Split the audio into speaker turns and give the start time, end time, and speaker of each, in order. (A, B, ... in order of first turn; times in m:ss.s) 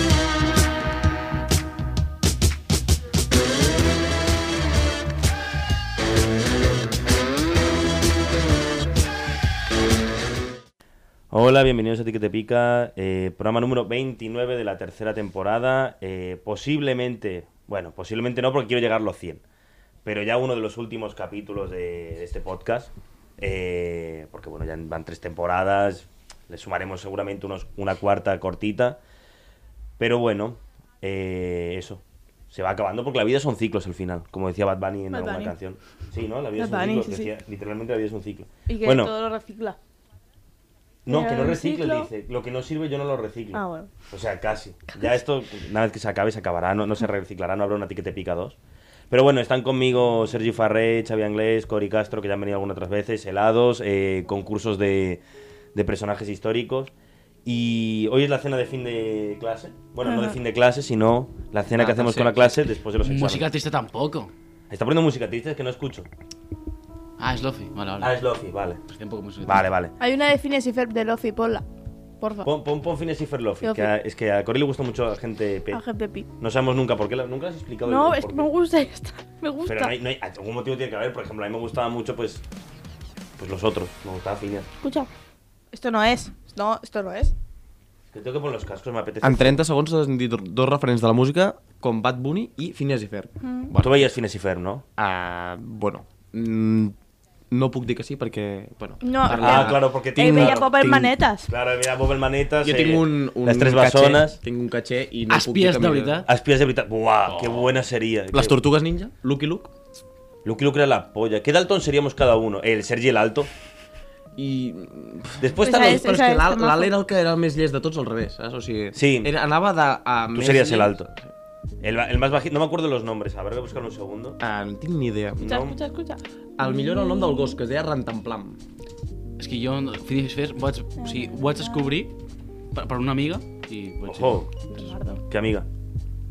0:11.3-0:19.4 A
0:20.0-0:29.0 A
0:30.0-0:39.1 A
0:35.1-0:35.5 B
0:36.6-0:37.3 B
0:38.7-0:39.8 B
0:41.1-0:48.6 A
0:41.1-0:42.1 B
0:43.5-0:43.9 B
0:49.1-0:55.2 A
0:55.8-0:56.9 A
0:57.4-1:03.5 A
1:00.0-1:00.4 B
1:01.8-1:04.3 C
1:04.7-1:06.1 A
1:07.2-1:08.2 C
1:08.0-1:08.8 A
1:08.9-1:09.6 C
1:09.4-1:09.9 A
1:10.0-1:11.6 B
1:12.2-1:12.5 B
1:12.4-1:15.8 A
1:13.6-1:13.9 B
1:15.7-1:16.3 B
1:16.4-1:18.5 A
1:17.9-1:19.9 B
1:19.6-1:22.4 A
1:23.4-1:24.7 A
1:24.8-1:25.1 B
1:25.7-1:27.3 B
1:28.1-1:29.6 A
1:29.2-1:34.0 D
1:33.4-1:33.7 B
1:33.8-1:34.8 A
1:35.0-1:37.0 D
1:37.5-1:41.2 D
1:39.0-1:41.5 B
1:39.3-1:40.6 A
1:41.5-1:44.4 A
1:42.6-1:46.3 D
1:45.3-1:46.3 C
1:46.2-1:48.6 A
1:47.3-1:47.7 C
1:48.3-1:49.7 D
1:50.4-1:53.5 A
1:54.4-2:01.3 D
1:55.4-1:56.1 A
1:55.6-1:56.9 B
1:58.9-1:59.3 A
2:00.3-2:01.1 A
2:01.8-2:04.4 A
2:04.4-2:05.6 D
2:05.4-2:05.8 A
2:05.4-2:07.6 B
2:06.6-2:08.6 D
2:09.4-2:12.1 C
2:11.0-2:12.0 B
2:12.8-2:14.5 C
2:14.0-2:14.5 A
2:14.7-2:15.2 B
2:15.3-2:15.7 A